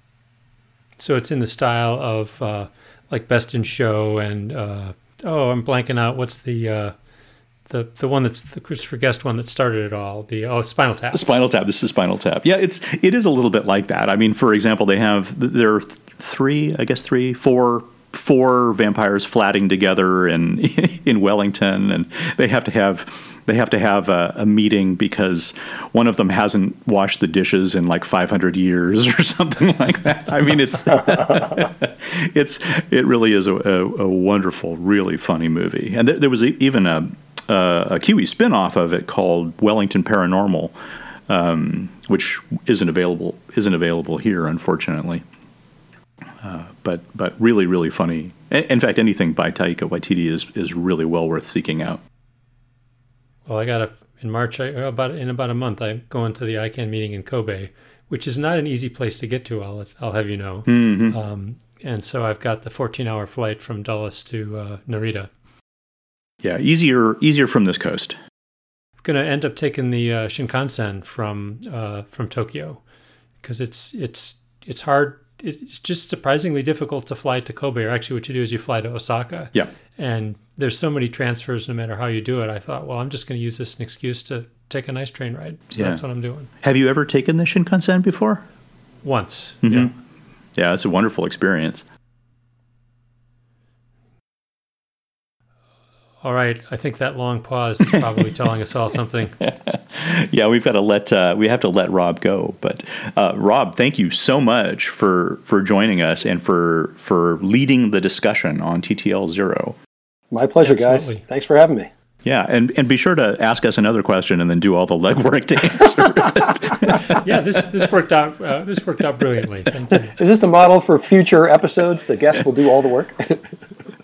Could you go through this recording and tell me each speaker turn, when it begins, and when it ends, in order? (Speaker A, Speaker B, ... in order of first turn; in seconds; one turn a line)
Speaker A: 1.0-6.9
Speaker A: 7.7-11.2
Speaker B: 11.1-40.7
Speaker B: 41.3-45.2
Speaker B: 46.4-52.0
Speaker A: 53.5-65.3
Speaker B: 60.7-61.2
Speaker B: 66.4-68.2
Speaker A: 69.0-72.8
Speaker A: 73.4-86.5
Speaker B: 85.7-86.0
Speaker B: 86.6-88.4
Speaker A: 89.0-89.9
Speaker B: 89.6-89.9
Speaker B: 90.5-91.8
Speaker A: 96.2-99.4
Speaker B: 97.9-98.2
Speaker B: 99.4-109.8
Speaker C: 110.3-111.9
Speaker A: 110.6-111.2
Speaker B: 112.2-117.2
Speaker A: 117.0-120.2
Speaker C: 119.9-123.5